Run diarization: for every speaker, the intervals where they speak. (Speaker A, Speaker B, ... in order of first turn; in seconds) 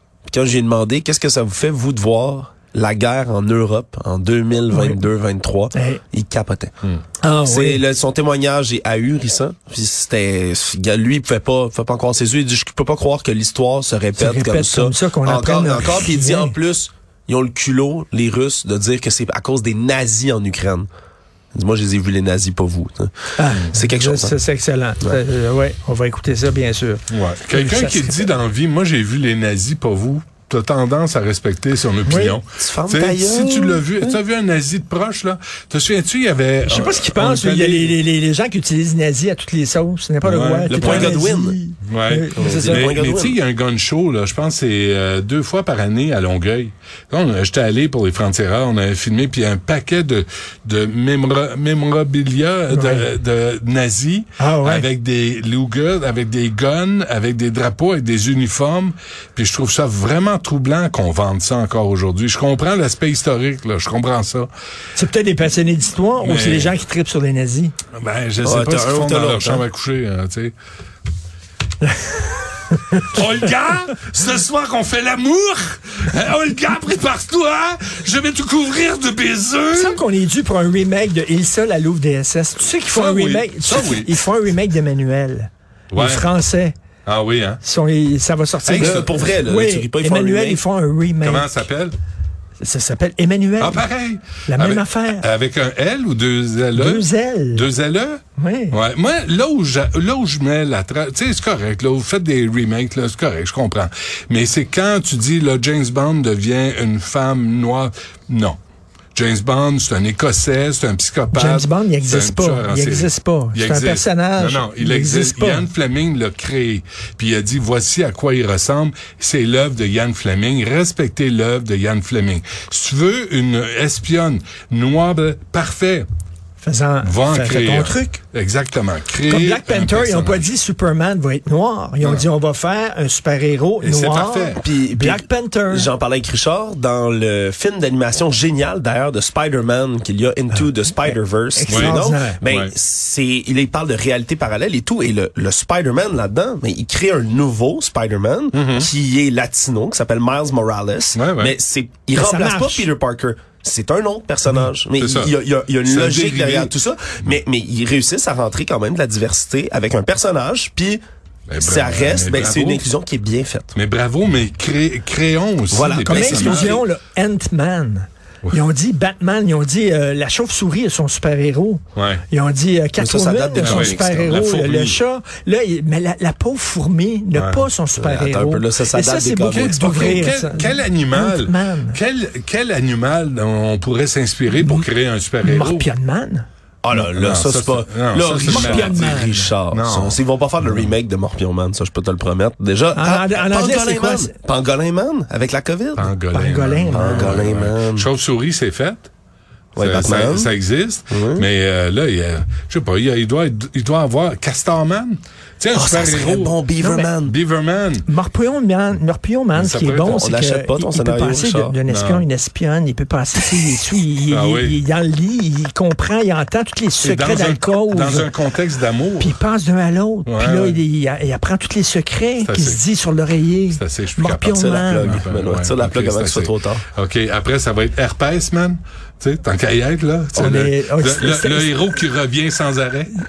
Speaker A: 0.3-6.7, 7.4-20.9, 21.5-23.1, 23.7-24.4, 32.6-34.2, 40.7-41.6, 42.4-43.4, 68.4-69.7, 88.7-90.6, 134.6-161.0, 161.6-163.8, 165.7-166.8, 173.0-175.0, 178.0-180.3, 186.8-196.2, 196.9-198.1, 199.8-200.5, 201.1-201.5, 205.8-207.4, 210.1-211.8, 224.5-226.8
Speaker B: 4.7-5.0, 5.7-6.0, 7.2-7.8, 14.2-16.6, 23.4-28.3, 32.0-32.4, 36.7-42.9, 52.7-53.1, 54.4-54.9, 65.0-67.7, 79.7-86.7, 87.6-91.5, 92.6-93.9, 94.5-95.3, 96.8-97.7, 98.4-98.8, 111.3-115.7, 126.6-128.2, 129.2-135.9, 140.5-142.4, 152.1-152.9, 166.1-182.0, 184.6-184.9, 185.4-186.5, 188.4-189.5, 192.9-194.3, 196.3-197.5, 206.8-207.1, 208.1-218.3, 219.2-225.3, 230.3-231.8
Speaker C: 27.1-38.0, 40.3-41.1, 41.9-64.5, 66.2-66.7, 67.9-70.5, 73.1-80.0, 82.9-84.2, 85.9-86.3, 87.1-87.6, 88.7-89.0, 91.2-91.9, 93.6-98.2, 98.7-108.6, 109.2-126.1, 127.0-130.4, 132.0-132.3, 133.8-134.6, 155.0-155.3, 155.8-156.7, 161.5-162.9, 163.8-166.8, 171.9-172.2, 173.7-174.7, 177.4-177.7, 179.5-185.9, 187.0-188.9, 189.7-190.2, 196.0-199.1, 199.8-206.6, 207.3-208.1, 209.6-210.1, 211.9-212.2, 214.3-214.7, 217.0-219.3, 220.3-220.8, 222.4-222.8, 223.7-233.1